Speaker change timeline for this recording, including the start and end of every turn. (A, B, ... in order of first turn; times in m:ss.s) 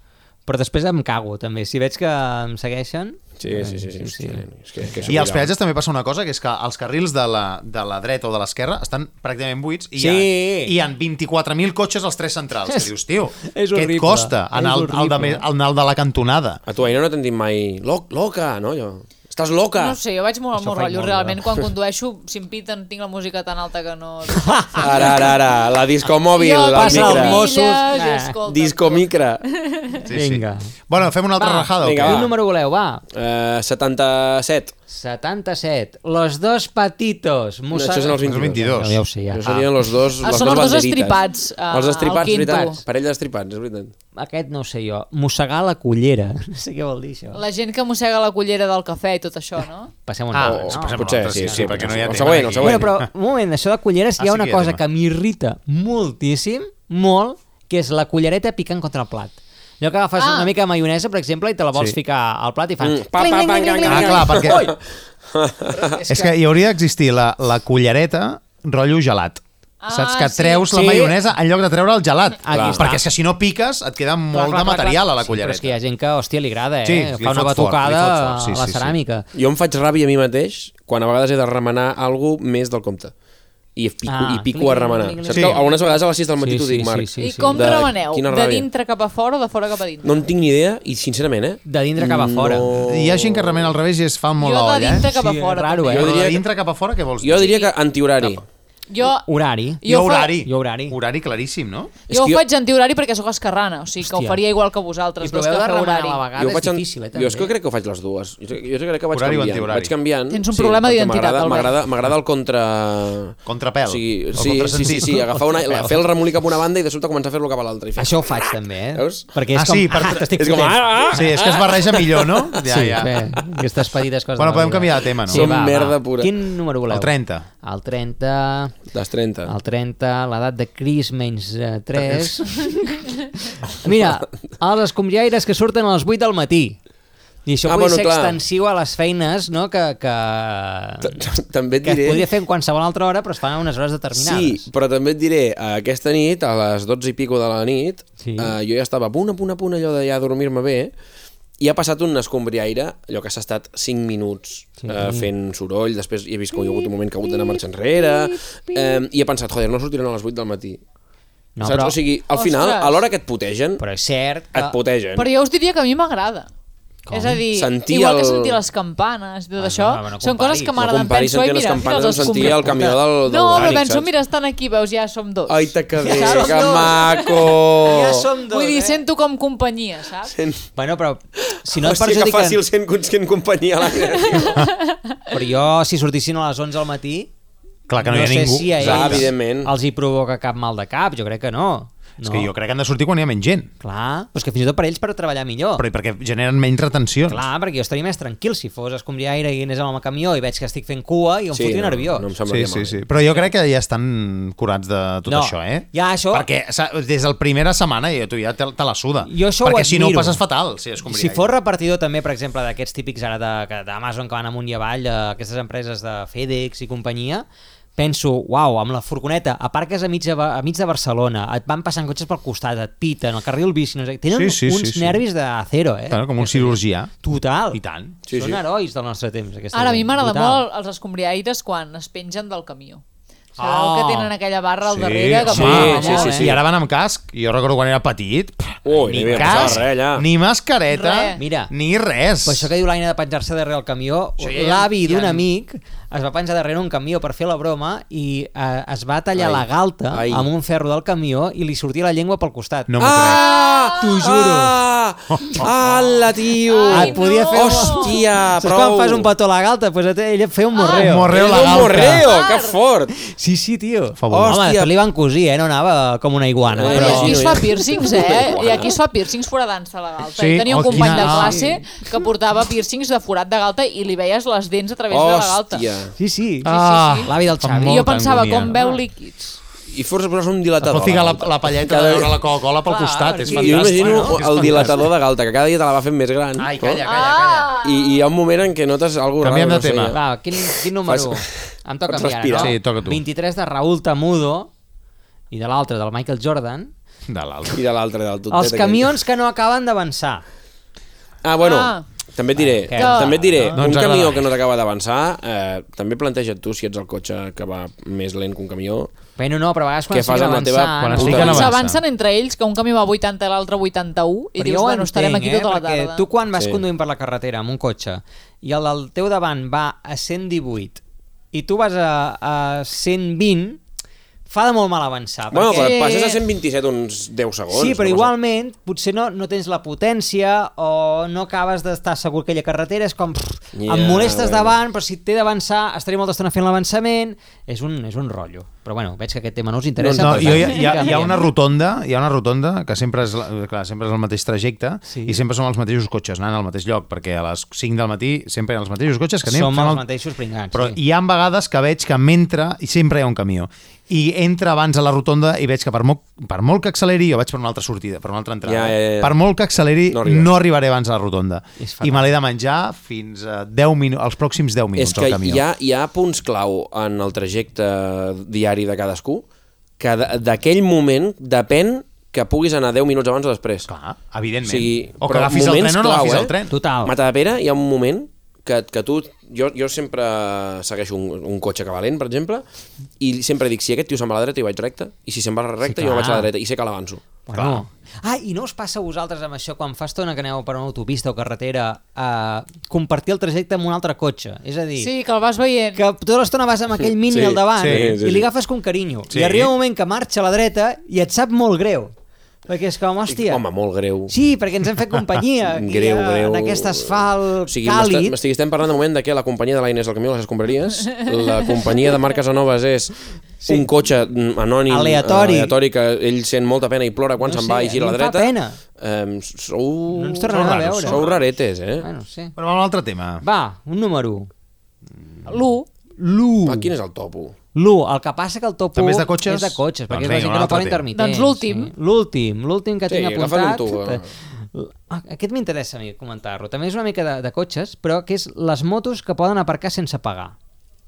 0:00.5-0:05.2 A
0:03.4-0:05.5 B
0:05.1-0:16.6 C
0:10.0-0:10.8 A
0:13.4-0:15.4 A
0:16.7-0:20.0 B
0:19.7-0:25.4 D
0:20.5-0:21.4 A
0:24.8-0:27.5 B
0:26.4-0:30.0 D
0:26.7-0:28.4 A
0:28.4-0:29.4 B
0:30.0-0:32.3 C
0:30.1-0:30.7 A
0:31.4-0:33.0 A
0:31.8-0:32.3 B
0:33.1-0:34.7 B
0:34.9-0:39.9 A
0:37.7-0:38.7 B
0:38.2-0:39.0 C
0:39.3-0:41.2 B
0:40.1-0:42.8 D
0:41.7-0:43.9 B
0:42.2-0:42.7 A
0:44.2-0:47.4 A
0:47.3-0:49.9 D
0:50.0-1:04.7 A
0:50.3-0:53.1 C
0:50.4-0:52.9 B
0:54.2-0:54.8 C
1:00.2-1:00.5 D
1:02.8-1:04.7 B
1:03.8-1:04.6 C
1:05.3-1:06.0 B
1:05.8-1:06.3 A
1:06.1-1:15.8 C
1:09.8-1:10.6 D
1:10.7-1:11.2 A
1:12.4-1:13.0 A
1:12.5-1:12.8 B
1:14.3-1:19.2 A
1:16.8-1:19.0 C
1:19.3-1:23.1 B
1:23.8-1:28.7 B
1:24.0-1:27.7 A
1:25.3-1:25.6 C
1:27.2-1:30.3 D
1:30.0-1:33.7 B
1:31.6-1:32.8 A
1:32.8-1:35.1 C
1:34.4-1:36.0 D
1:34.9-1:36.2 A
1:35.9-1:36.5 B
1:35.9-1:37.4 C
1:37.2-1:38.4 B
1:37.4-1:37.7 D
1:38.9-1:39.2 D
1:39.0-1:39.8 A
1:39.8-1:40.3 D
1:39.8-1:41.9 C
1:40.4-1:41.0 A
1:42.1-1:42.4 B
1:42.1-1:46.3 D
1:44.0-1:44.4 A
1:45.2-1:47.5 A
1:46.3-1:59.3 B
1:49.1-1:49.9 C
1:50.3-1:51.8 D
1:53.4-1:55.3 C
1:54.8-1:55.2 A
1:58.0-2:01.2 A
1:59.5-2:00.3 C
2:00.4-2:02.6 B
2:01.1-2:03.1 C
2:02.6-2:08.7 A
2:04.4-2:05.6 C
2:05.3-2:06.3 B
2:06.9-2:07.4 C
2:08.9-2:09.5 B
2:09.5-2:16.8 A
2:17.4-2:21.2 A
2:17.6-2:18.4 B
2:21.0-2:22.3 B
2:21.8-2:24.6 A
2:24.1-2:30.9 B
2:28.2-2:28.6 A
2:31.6-2:40.8 B
2:34.8-2:35.3 A
2:41.6-2:42.0 A
2:41.6-2:43.8 B
2:42.3-2:43.0 D
2:43.8-2:44.8 A
2:44.5-2:45.3 B
2:45.2-2:46.5 D
2:47.1-2:47.4 A
2:47.1-2:57.5 D
2:47.5-2:48.6 B
2:49.6-2:50.8 A
2:50.8-2:54.1 B
2:52.2-2:53.8 A
2:55.5-2:58.3 B
2:56.0-2:57.1 A
2:57.8-2:59.0 A
2:58.5-3:00.3 D
3:00.3-3:00.6 B
3:00.8-3:02.6 A
3:01.8-3:04.6 B
3:04.3-3:04.7 D
3:05.3-3:07.3 A
3:07.9-3:09.3 C
3:08.0-3:12.5 A
3:08.7-3:09.7 B
3:12.2-3:13.7 C
3:13.8-3:15.8 A
3:15.8-3:17.4 C
3:17.3-3:22.3 A
3:21.5-3:23.0 B
3:22.4-3:31.5 C
3:25.2-3:26.5 A
3:29.2-3:30.4 A
3:31.0-3:37.4 A
3:38.0-3:50.6 A
3:44.3-3:45.2 C
3:46.1-3:47.1 C
3:47.7-3:48.2 C
3:48.3-3:48.6 B
3:49.7-3:53.0 D
3:53.6-3:54.3 A
3:53.6-3:56.3 D
3:54.8-4:02.7 C
3:55.4-3:56.6 B
3:55.5-3:56.6 A
3:58.8-4:00.3 B
3:59.1-3:59.8 A
4:00.9-4:01.4 D
4:01.4-4:01.7 A
4:02.4-4:13.1 A
4:04.4-4:05.4 C
4:09.3-4:10.5 B
4:12.9-4:13.4 C
4:13.0-4:19.3 B
4:14.0-4:14.8 A
4:16.7-4:18.2 D
4:16.9-4:21.4 A
4:20.8-4:22.8 D
4:21.0-4:22.3 C
4:21.3-4:23.1 B
4:23.2-4:27.4 A
4:24.2-4:24.6 C
4:24.3-4:24.9 B
4:26.7-4:29.0 B
4:26.8-4:35.9 D
4:30.4-4:31.6 C
4:30.8-4:31.8 A
4:35.1-4:36.1 B
4:36.2-4:39.0 A
4:36.6-4:38.8 C
4:36.7-4:37.3 D
4:37.8-4:39.6 D
4:39.9-4:42.4 B
4:40.8-4:45.0 C
4:42.8-4:44.9 A
4:43.4-4:47.0 B
4:46.6-4:47.7 C
4:47.0-4:48.3 D
4:47.8-4:51.5 B
4:49.4-4:50.2 C
4:50.1-4:54.7 A
4:52.1-4:52.7 B
4:52.6-4:53.2 C
4:55.5-4:56.9 A
4:57.3-4:57.8 C
4:57.7-4:59.1 B
4:58.5-5:00.4 A
5:01.4-5:09.1 B
5:01.6-5:02.0 D
5:02.6-5:03.8 A
5:02.9-5:03.4 D
5:03.7-5:04.5 C
5:09.4-5:11.7 A
5:10.1-5:11.7 B
5:11.0-5:12.0 C
5:11.3-5:16.2 D
5:14.6-5:21.0 A
5:16.5-5:16.8 B
5:21.5-5:23.8 A
5:24.5-5:26.0 A
5:25.5-5:28.3 B
5:25.7-5:26.4 D
5:27.7-5:41.5 A
5:33.7-5:34.8 B
5:40.0-5:40.8 B
5:40.2-5:50.0 C
5:45.0-5:45.4 A
5:49.4-5:51.0 A
5:50.7-6:05.6 C
5:58.6-5:59.4 B
6:00.1-6:00.5 B
6:01.8-6:02.4 A
6:05.0-6:09.4 B
6:10.0-6:13.9 B
6:13.9-6:16.7 C
6:14.6-6:22.6 B
6:16.7-6:17.1 A
6:23.2-6:27.2 B
6:25.8-6:26.5 A
6:27.5-6:35.1 A
6:27.5-6:27.8 C
6:35.0-6:36.0 D
6:35.9-6:42.1 A
6:37.3-6:38.5 B
6:37.8-6:38.1 C
6:39.3-6:39.7 C
6:42.7-6:43.6 A
6:43.3-6:44.3 B
6:44.3-6:48.4 A
6:45.7-7:02.0 B
6:53.6-6:53.9 A
6:54.9-6:55.8 A
6:57.4-6:58.8 A
7:00.1-7:01.3 A
7:00.5-7:01.4 C
7:02.0-7:02.6 A
7:02.6-7:03.4 C
7:03.4-7:04.5 A
7:05.5-7:05.9 D
7:06.2-7:06.9 A
7:06.6-7:07.5 B
7:07.7-7:20.5 A
7:08.9-7:11.0 C
7:11.1-7:11.9 D
7:13.1-7:14.3 B